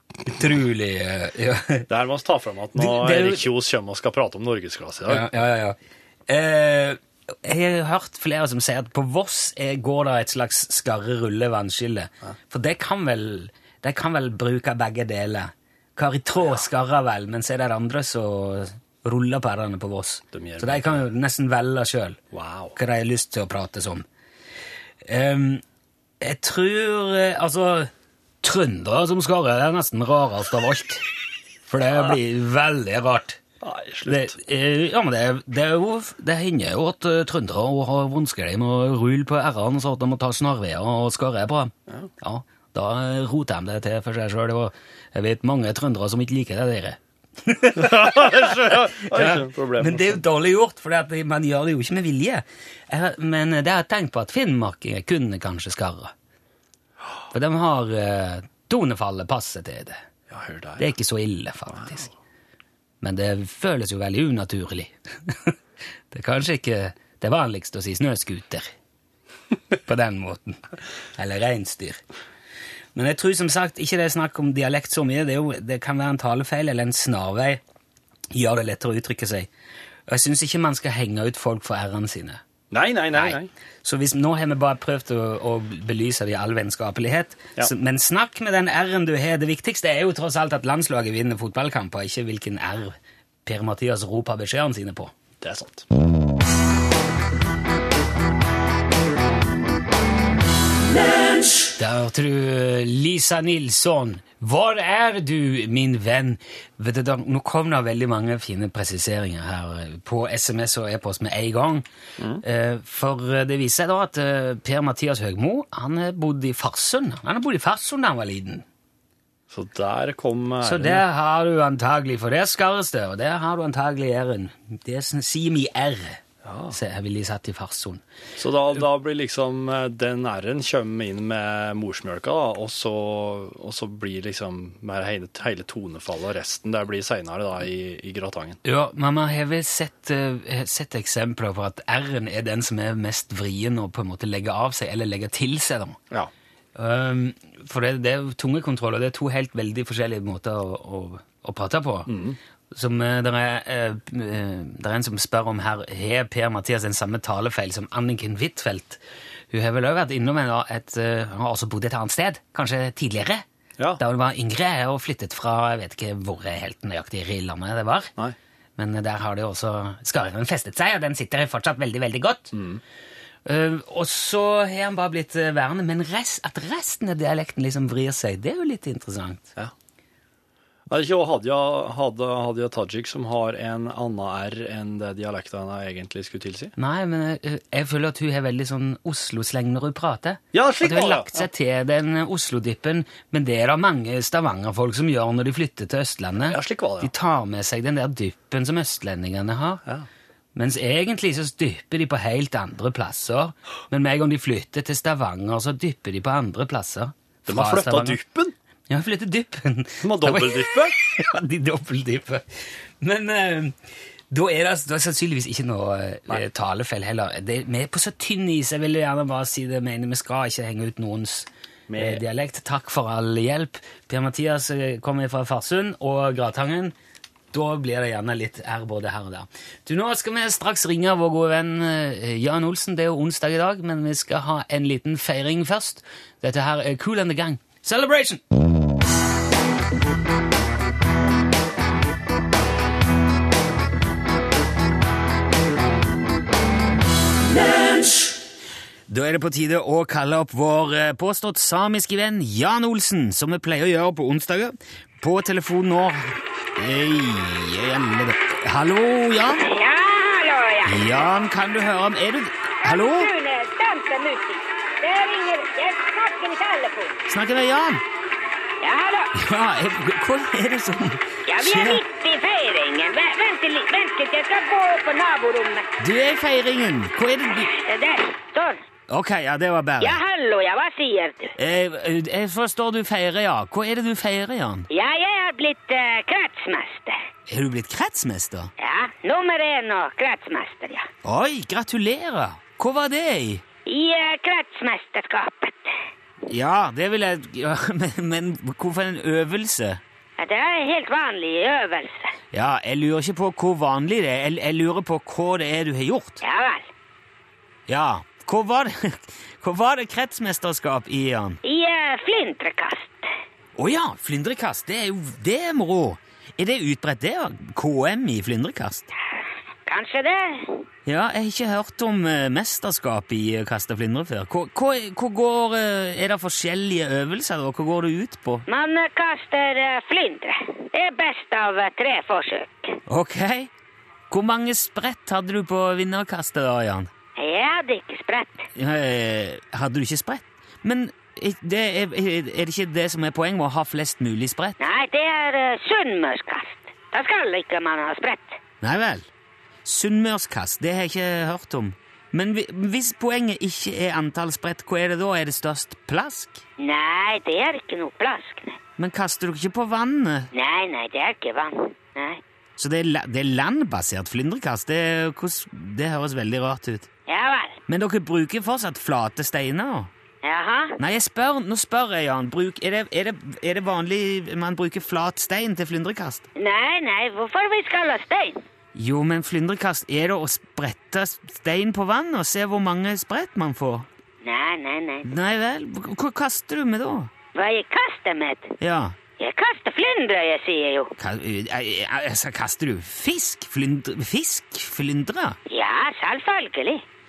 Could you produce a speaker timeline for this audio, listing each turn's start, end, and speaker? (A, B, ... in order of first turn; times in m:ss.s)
0:00.2-0:01.9 A
0:01.9-0:05.3 B
0:02.8-0:03.5 A
0:05.1-0:22.2 A
0:20.3-0:21.0 B
0:22.3-0:22.8 B
0:22.8-0:24.1 A
0:25.0-0:25.6 A
0:26.2-0:27.9 A
0:28.4-0:31.1 A
0:31.7-0:33.4 A
0:33.6-0:34.3 B
0:34.1-0:56.1 A
0:47.8-0:50.2 B
0:57.3-1:00.0 A
1:00.3-1:00.9 B
1:00.8-1:02.1 A
1:01.7-1:02.0 B
1:03.0-1:05.6 A
1:06.1-1:08.7 A
1:09.9-1:10.6 A
1:11.2-1:12.0 A
1:13.0-1:17.6 A
1:18.3-1:19.5 A
1:20.1-1:22.4 A
1:22.7-1:23.5 B
1:23.1-1:35.1 A
1:35.4-1:35.8 B
1:41.8-1:51.9 A
1:52.4-1:58.7 A
1:59.5-2:01.0 B
2:00.6-2:08.0 A
2:06.4-2:06.8 B
2:08.4-2:18.6 B
2:18.6-2:26.0 A
2:26.8-2:32.1 A
2:32.1-2:32.4 B
2:32.7-2:39.0 A
2:39.5-2:43.4 A
2:44.0-2:48.1 A
2:48.8-2:52.5 A
2:52.5-2:52.8 B
2:53.5-2:59.5 A
3:00.9-3:06.7 B
3:06.8-3:19.8 A
3:10.5-3:11.5 B
3:16.5-3:17.1 B
3:20.6-3:28.2 A
3:27.5-3:28.5 B
3:28.9-3:32.4 A
3:30.0-3:31.0 B
3:33.0-3:33.8 A
3:34.3-3:47.0 A
3:41.9-3:42.2 B
3:47.5-3:58.4 A
4:09.1-4:19.7 A
4:19.6-4:21.3 C
4:20.8-4:23.3 A
4:22.8-4:27.2 C
4:27.3-4:28.0 A
4:28.8-4:29.3 C
4:29.4-4:32.0 A
4:31.5-4:35.9 C
4:36.0-4:37.7 A
4:37.6-4:38.8 C
4:39.1-4:40.2 A
4:40.0-4:41.5 C
4:41.6-4:44.9 A
4:44.9-4:47.2 C
4:47.5-4:48.7 A
4:48.8-4:51.1 C
4:51.2-4:53.6 A
4:53.9-4:56.0 C
4:56.5-5:00.0 A
5:00.4-5:02.3 C
5:02.5-5:06.4 A
5:06.4-5:06.9 C
5:07.9-5:11.6 A
5:11.6-5:13.3 C
5:13.8-5:19.1 A
5:19.3-5:20.8 C
5:21.1-5:28.6 A
5:28.7-5:33.0 C
5:33.1-5:33.7 A
5:34.3-5:37.1 A
5:37.4-5:38.7 C
5:38.8-5:44.8 A
5:44.8-5:48.6 C
5:48.8-5:49.3 A
5:49.8-5:56.6 A
5:56.8-5:58.8 C
5:59.0-6:00.5 A
6:00.5-6:02.4 C
6:02.8-6:07.1 A
6:07.3-6:07.8 C
6:07.9-6:10.1 A
6:10.4-6:11.0 C
6:11.0-6:16.5 A
6:16.6-6:18.6 C
6:19.0-6:24.1 A
6:24.4-6:25.3 C
6:25.2-6:27.3 A
6:27.5-6:28.7 C
6:28.8-6:29.2 A
6:29.4-6:31.1 C
6:31.2-6:35.6 A
6:35.7-6:37.0 C